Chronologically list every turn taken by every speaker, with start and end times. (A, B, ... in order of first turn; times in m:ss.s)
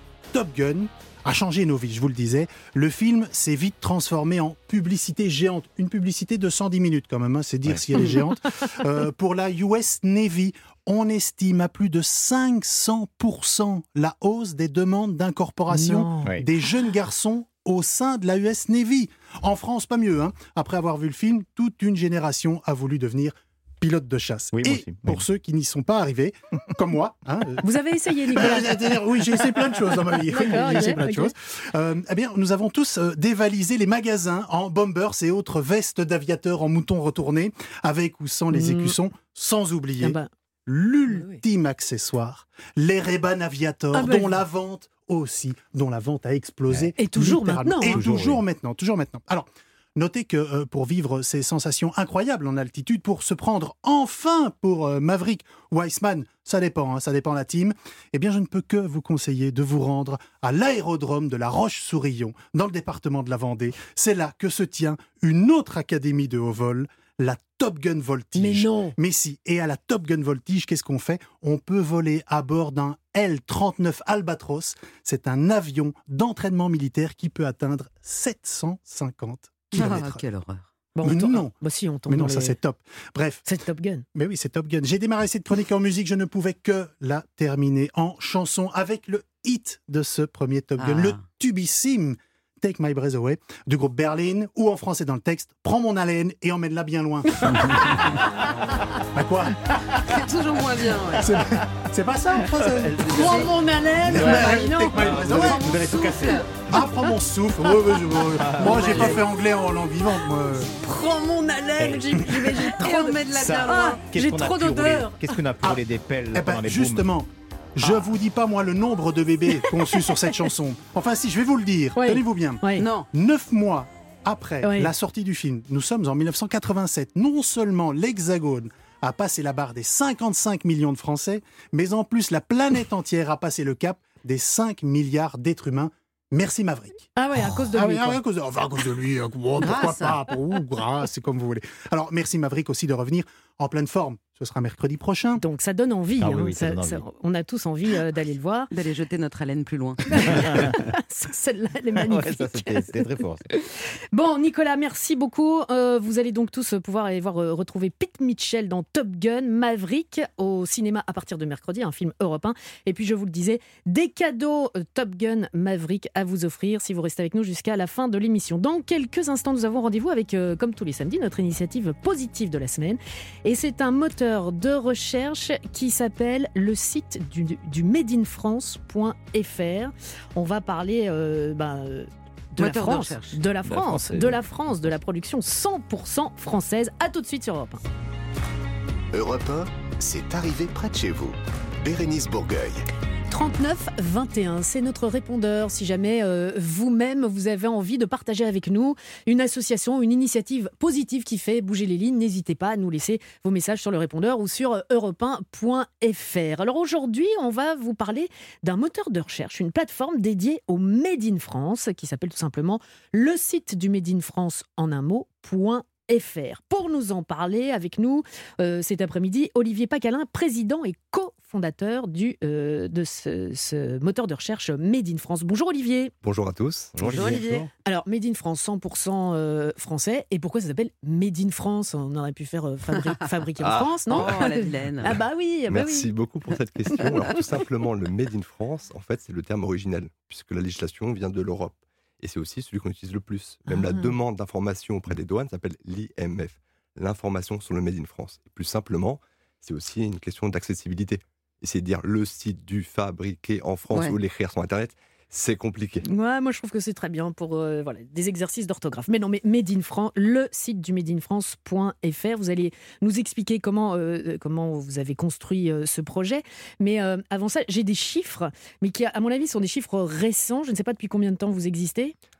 0:00.3-0:27.6 A
0:08.0-0:08.2 B
0:15.7-0:16.3 B
0:24.5-0:25.2 C
0:27.6-0:28.8 B
0:28.3-1:20.2 A
0:30.3-0:31.3 B
0:38.5-0:38.9 B
0:40.0-0:40.3 B
0:41.1-0:41.4 B
0:43.9-0:44.4 B
0:47.0-0:48.0 B
0:47.9-0:48.4 C
1:08.4-1:08.9 B
1:19.8-1:20.6 D
1:21.0-1:22.6 B
1:21.0-1:21.5 A
1:22.1-1:23.4 A
1:23.4-1:24.0 B
1:24.1-1:38.0 A
1:30.8-1:31.2 D
1:39.1-1:39.6 A
1:40.1-1:41.4 D
1:41.2-1:45.7 A
1:42.6-1:43.3 C
1:43.1-1:43.5 D
1:43.4-1:45.5 B
1:44.1-1:46.4 C
1:44.1-1:46.5 D
1:46.7-1:50.7 A
1:46.8-1:47.1 B
1:48.4-1:49.1 C
1:48.6-1:49.2 D
1:48.6-1:49.1 B
1:50.8-1:55.3 B
1:51.8-1:52.2 C
1:52.2-1:54.0 D
1:53.3-1:57.1 C
1:55.6-2:25.4 A
1:57.8-1:58.1 C
1:59.6-2:00.3 B
2:02.0-2:02.9 B
2:02.8-2:03.1 D
2:04.6-2:04.9 B
2:17.2-2:18.2 B
2:19.6-2:20.2 D
2:25.4-2:28.7 B
2:26.2-2:27.0 C
2:28.7-2:30.4 D
2:30.1-2:33.0 B
2:30.3-2:30.7 C
2:32.0-2:33.5 C
2:34.1-3:07.8 B
3:02.6-3:03.4 D
3:03.6-3:04.4 C
3:09.1-3:12.8 E
3:13.3-3:46.1 B
3:46.2-3:47.2 F
3:46.9-3:47.7 C
3:47.0-3:47.7 D
3:47.8-3:56.1 B
3:54.0-3:55.2 D
3:55.7-4:16.0 F
4:03.7-4:04.1 B
4:16.0-4:32.1 B